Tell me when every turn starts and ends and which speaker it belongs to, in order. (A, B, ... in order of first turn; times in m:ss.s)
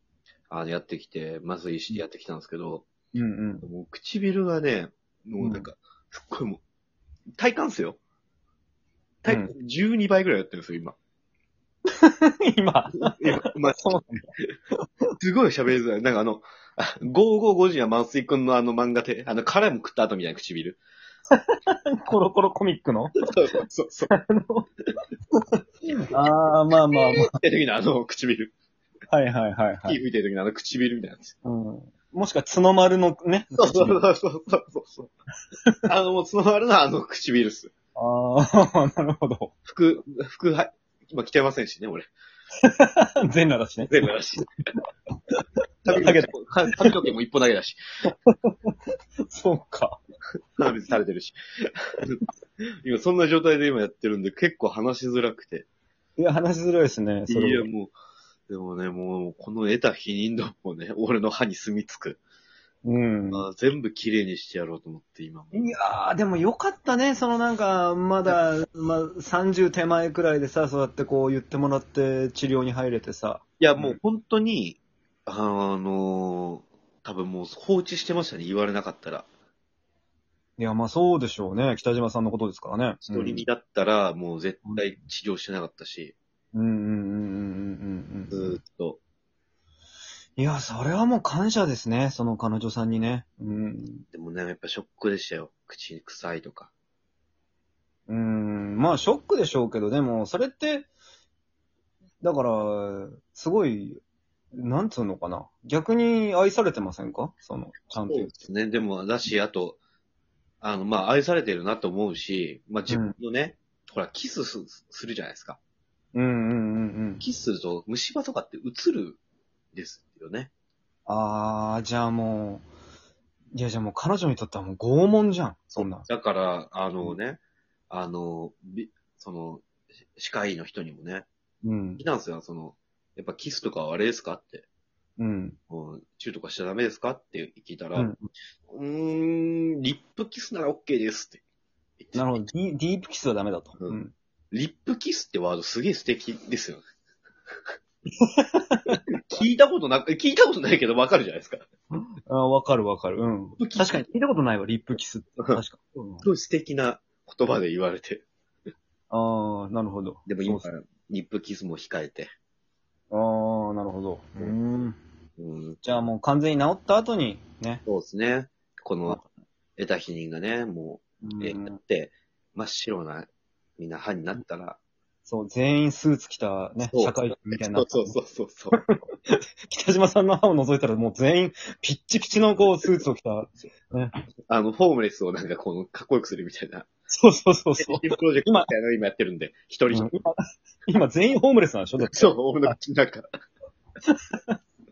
0:00.5-0:02.9 A
0:03.1-0:03.7 B
0:03.6-0:06.6 A
0:05.4-0:05.6 B
0:07.4-0:08.0 A
0:09.2-0:11.0 A
0:12.0-0:14.2 B
0:13.0-0:14.5 A
0:15.2-0:20.8 A
0:21.3-0:23.6 B
0:23.3-0:24.1 A
0:24.1-0:24.6 B
0:26.1-0:27.4 B
0:26.9-0:28.5 A
0:29.1-0:30.0 B
0:29.8-0:31.4 A
0:31.4-0:34.0 B
0:33.6-0:35.1 A
0:35.8-0:37.7 A
0:38.0-0:39.5 B
0:39.7-0:42.1 A
0:42.6-0:44.0 B
0:43.9-0:44.5 A
0:45.8-0:47.8 A
0:45.9-0:46.9 B
0:48.2-0:48.7 B
0:49.3-0:50.0 B
0:50.6-0:52.2 A
0:52.8-0:55.7 A
0:56.2-0:57.7 B
0:57.3-0:57.9 A
0:58.5-1:02.2 A
1:02.8-1:03.5 B
1:03.3-1:05.7 A
1:05.5-1:14.0 B
1:13.6-1:19.3 A
1:20.6-1:23.4 B
1:23.1-1:26.1 A
1:26.5-1:28.6 B
1:28.3-1:29.0 A
1:30.4-1:34.0 B
1:34.1-1:36.7 A
1:38.1-1:40.9 B
1:42.2-1:44.0 B
1:44.5-1:48.4 B
1:48.0-1:49.8 A
1:50.6-1:55.6 A
1:52.9-1:53.2 B
1:56.1-1:57.2 B
1:57.2-1:59.2 A
1:59.7-2:00.5 A
2:01.1-2:02.6 B
2:03.5-2:06.1 B
2:05.7-2:11.2 A
2:11.6-2:12.0 B
2:12.0-2:14.7 A
2:15.2-2:15.6 B
2:15.7-2:18.1 A
2:17.9-2:18.2 B
2:18.7-2:21.4 A
2:22.0-2:22.3 A
2:22.1-2:24.1 B
2:24.5-2:26.8 A
2:28.2-2:29.0 B
2:28.9-2:31.6 A
2:31.9-2:36.3 B
2:33.6-2:34.0 A
2:36.2-2:38.2 A
2:39.1-2:40.6 B
2:40.2-2:42.3 A
2:43.1-2:45.0 B
2:45.4-2:45.8 A
2:45.8-2:47.8 B
2:47.8-2:49.2 A
2:49.8-2:54.8 A
2:51.2-2:51.8 B
2:55.3-2:58.2 B
2:56.9-2:58.8 A
2:58.7-3:04.1 B
3:04.5-3:06.9 A
3:07.1-3:08.7 B
3:07.8-3:10.1 A
3:09.9-3:10.3 B
3:10.9-3:12.7 B
3:12.1-3:13.3 A
3:14.1-3:14.6 B